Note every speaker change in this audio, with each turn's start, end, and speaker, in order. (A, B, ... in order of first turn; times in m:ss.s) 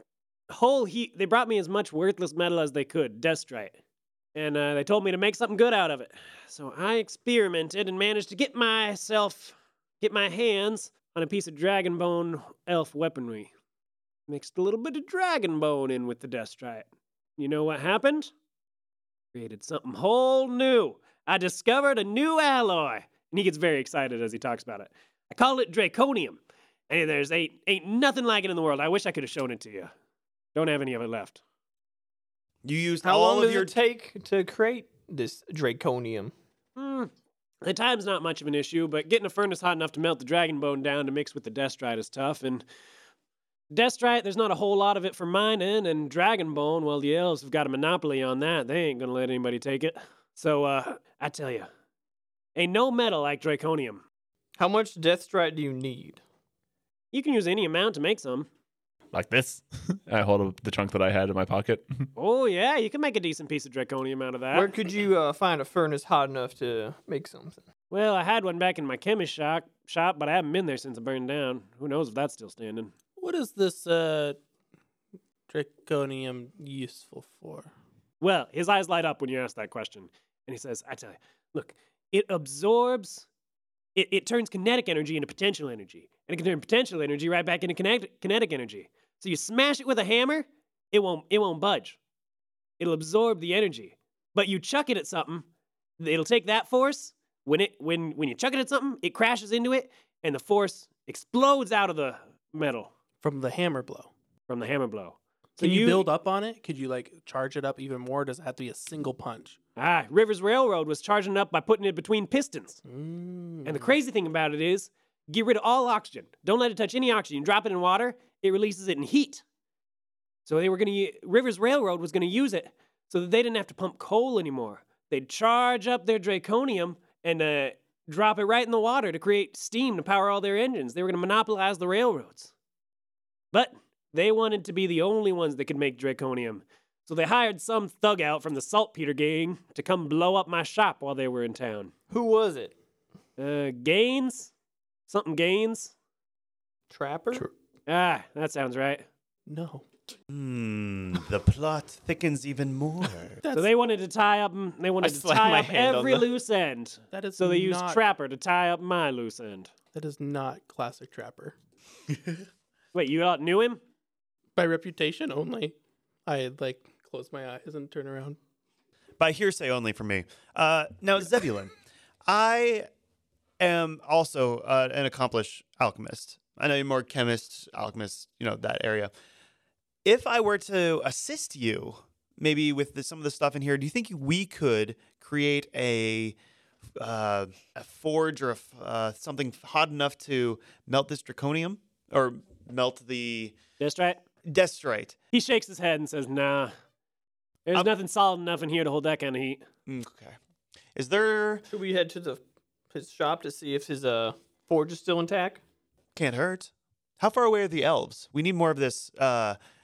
0:00.5-0:03.7 A
0:04.4-0:13.5 A
0:14.3-0:16.9 A
0:17.4-0:18.3 A
0:19.3-0:26.4 A
0:26.9-0:29.9 A
0:30.6-0:31.4 A
0:32.6-0:33.8 B
0:33.0-0:36.3 C
0:36.8-0:37.1 A
0:37.6-0:42.6 A
0:43.7-0:51.7 A
0:52.6-0:54.0 A
0:54.6-0:56.2 C
0:57.1-0:58.5 A
0:59.1-1:01.9 D
1:02.2-1:04.7 A
1:04.5-1:07.6 C
1:07.9-1:12.9 A
1:13.2-1:14.4 E
1:15.5-1:17.7 E
1:18.2-1:23.3 A
1:24.0-1:32.0 A
1:32.8-1:35.4 A
1:36.0-1:42.9 A
1:43.2-1:44.1 E
1:44.5-1:46.1 A
1:45.6-1:49.6 E
1:49.8-1:52.8 A
1:52.9-1:54.0 E
1:53.6-1:59.4 A
2:00.5-2:12.5 A
2:13.5-2:21.9 A
2:22.1-2:22.8 C
2:23.4-2:24.5 A
2:25.1-2:25.9 A
2:26.9-2:27.5 C
2:27.9-2:29.0 A
2:29.5-2:29.8 E
2:30.3-2:33.4 B
2:33.4-2:33.7 E
2:33.5-2:39.7 A
2:35.0-2:36.2 C
2:37.1-2:38.0 E
2:39.9-2:41.6 E
2:42.9-2:43.8 A
2:44.6-2:48.4 E
2:49.2-2:51.7 B
2:52.3-2:52.9 B
2:53.6-2:59.1 B
3:00.0-3:06.4 B
3:07.0-3:13.6 B
3:13.8-3:14.2 A
3:14.5-3:15.2 B
3:15.3-3:16.7 A
3:17.7-3:19.6 A
3:19.9-3:20.4 B
3:21.0-3:21.6 B
3:21.7-3:25.6 C
3:26.2-3:29.6 B